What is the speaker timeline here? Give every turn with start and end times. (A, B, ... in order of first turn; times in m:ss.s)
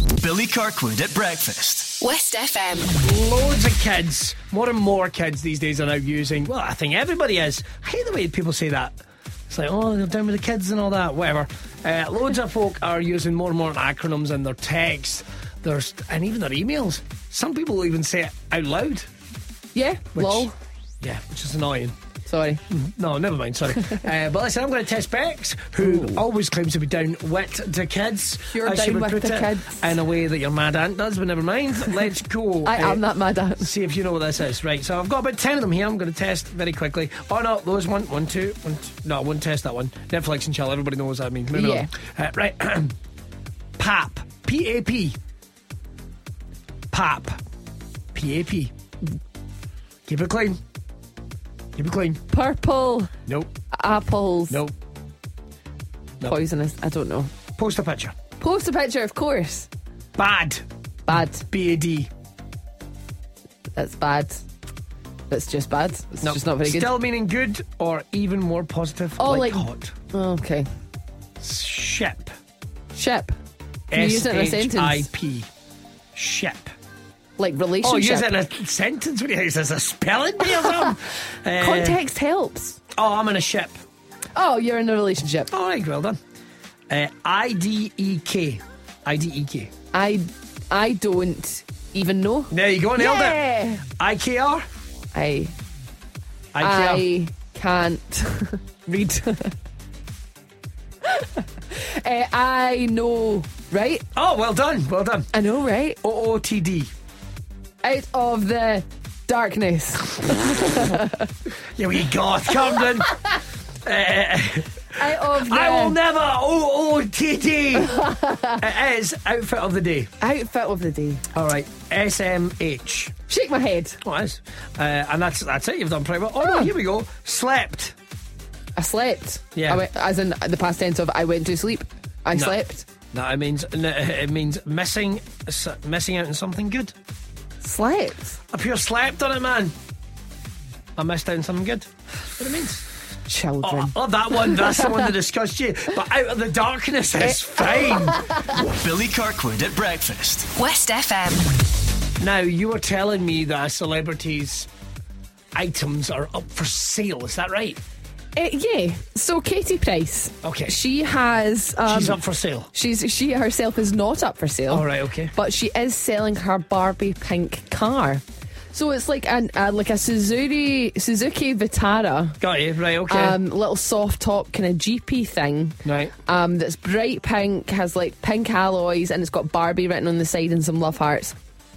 0:00.2-0:02.0 A
0:02.0-0:03.0 B
0:03.0-0:09.0 C
0:09.5-0:19.1 C
0:19.7-0:20.5 D
0:20.1-0:20.5 C
0:21.0-0:22.0 C
0:22.2-0:22.6 D
0:22.7-0:33.0 C
0:25.8-0:26.2 D
0:28.5-0:29.9 D
0:32.6-0:33.7 D
0:33.6-0:43.0 C
0:41.5-0:41.9 D
0:43.8-0:45.2 C
0:46.9-0:47.4 C
0:48.1-0:48.7 C
0:50.0-0:50.6 C
0:51.7-0:52.2 C
0:52.3-0:53.1 D
0:53.2-0:53.5 C
0:53.7-0:54.6 D
0:54.5-0:54.7 C
0:56.2-0:57.3 D
0:57.6-0:58.1 C
0:58.4-0:59.7 D
1:00.2-1:02.1 C
1:01.1-1:01.5 D
1:03.7-1:04.4 D
1:05.3-1:07.0 D
1:06.2-1:09.9 C
1:09.2-1:10.7 D
1:11.4-1:12.3 C
1:12.9-1:13.3 D
1:13.9-1:15.5 C
1:13.9-1:15.1 D
1:16.1-1:16.7 C
1:17.4-1:18.3 D
1:17.8-1:22.0 C
1:20.6-1:20.9 D
1:21.6-1:22.8 D
1:22.9-1:23.8 C
1:24.3-1:25.5 D
1:25.5-1:26.2 C
1:26.9-1:29.7 C
1:29.9-1:33.8 D
1:32.5-1:34.6 C
1:35.1-1:35.5 D
1:36.5-1:37.0 C
1:36.6-1:39.5 D
1:41.0-1:44.0 D
1:44.1-1:45.3 C
1:45.3-1:46.0 D
1:46.0-1:46.9 C
1:47.8-1:51.3 D
1:51.8-1:58.0 C
1:55.0-1:56.0 D
1:57.8-1:58.6 D
1:58.6-2:00.1 C
2:00.2-2:01.2 D
2:01.3-2:03.1 C
2:03.3-2:04.0 D
2:04.0-2:08.0 C
2:06.4-2:06.7 D
2:08.8-2:12.8 D
2:09.6-2:09.8 C
2:12.3-2:12.6 C
2:13.1-2:16.9 C
2:17.6-2:18.4 D
2:18.5-2:19.7 C
2:21.0-2:22.8 C
2:23.3-2:25.0 D
2:23.6-2:28.2 C
2:27.6-2:28.4 D
2:28.5-2:30.5 A
2:30.6-2:31.5 B
2:32.2-2:34.7 C
2:35.5-2:37.8 C
2:38.4-2:42.2 D
2:40.4-2:40.8 C
2:41.8-2:42.7 C
2:42.7-2:52.4 D
2:44.7-2:45.3 C
2:52.4-2:53.4 C
2:53.1-3:01.4 D
2:55.8-2:56.1 C